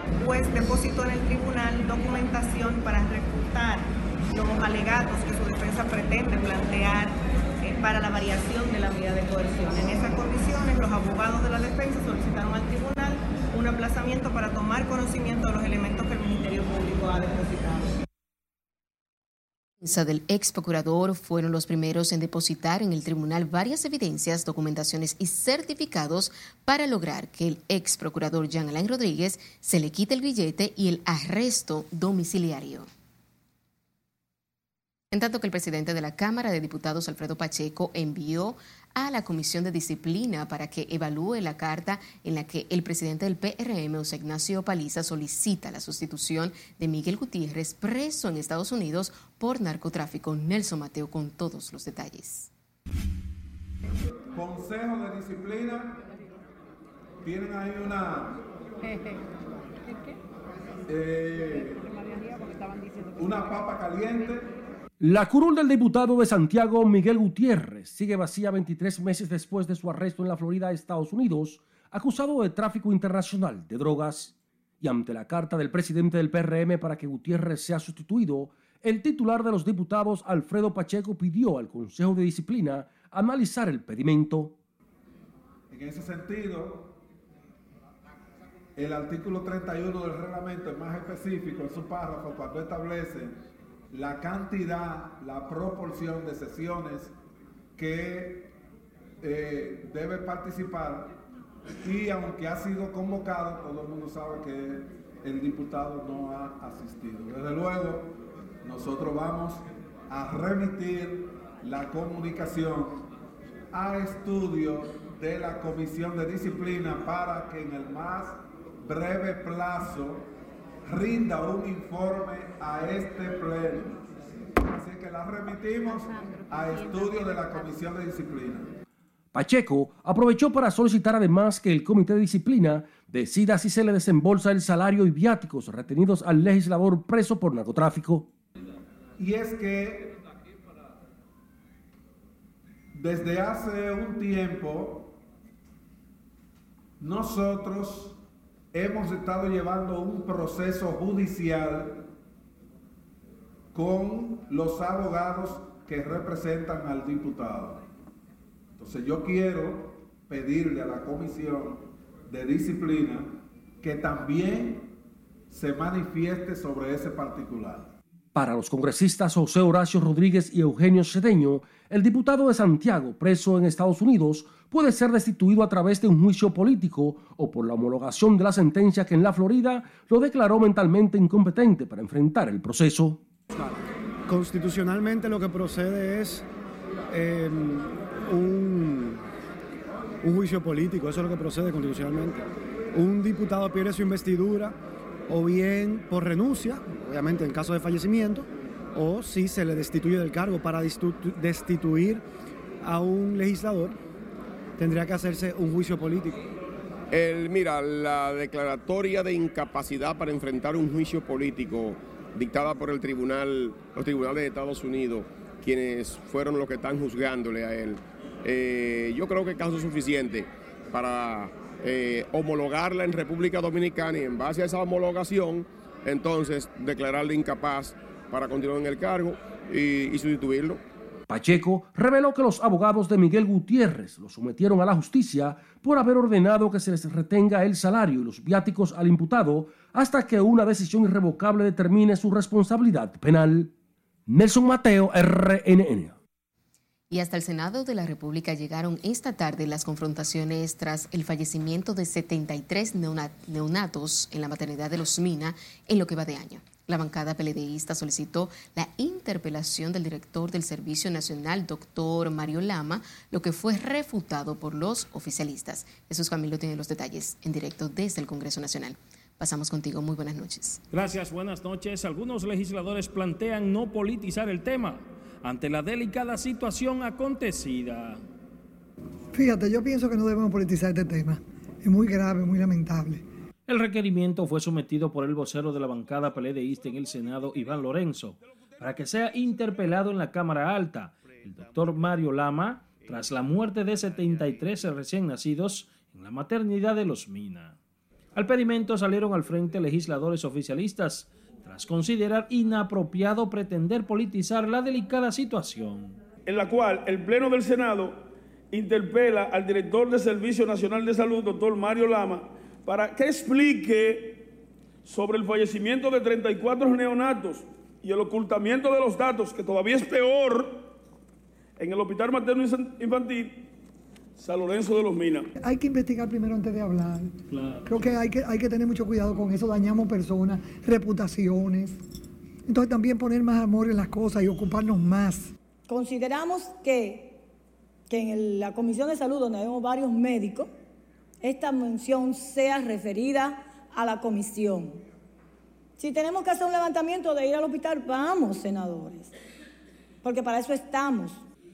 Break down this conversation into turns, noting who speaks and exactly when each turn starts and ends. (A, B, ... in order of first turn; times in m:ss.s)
0:00.2-0:17.9 A
0:19.8-0:32.9 B
0:35.1-0:52.5 B
0:54.3-0:56.0 C
0:57.2-0:58.4 C
1:00.9-1:01.9 C
1:03.2-1:04.5 C
1:05.0-1:24.6 D
1:25.7-1:27.0 C
1:28.8-1:33.4 C
1:33.9-1:37.1 C
1:37.8-1:38.5 C
1:39.2-1:41.2 C
1:41.8-1:53.0 C
1:53.7-2:00.3 C
2:00.8-2:04.0 C
2:04.6-2:08.7 C
2:09.3-2:18.3 D
2:19.2-2:20.2 C
2:22.9-2:25.2 C
2:27.0-2:28.2 C
2:28.7-2:32.1 C
2:33.7-2:37.8 C
2:38.8-2:44.9 C
2:45.5-2:47.9 C
2:48.4-3:03.2 D
3:03.5-3:06.4 E
3:07.1-3:09.2 E
3:10.2-3:14.8 E
3:15.3-3:22.2 E
3:22.8-3:24.0 E
3:24.8-3:26.4 E
3:27.1-3:50.8 F
3:51.3-4:03.7 D
4:04.3-4:06.2 D
4:07.1-4:30.8 B
4:30.9-4:38.2 G
4:39.3-4:43.2 H
4:43.7-4:57.8 G
4:58.4-5:06.2 G
5:06.4-5:14.5 I
5:15.0-5:20.9 I
5:21.8-5:23.6 I
5:24.4-5:25.5 I
5:25.6-5:27.3 H
5:27.8-5:32.0 H
5:32.7-5:35.5 H
5:35.9-5:37.4 J
5:38.1-5:40.7 J
5:41.4-5:45.0 J
5:46.0-5:49.3 J
5:50.2-5:51.4 J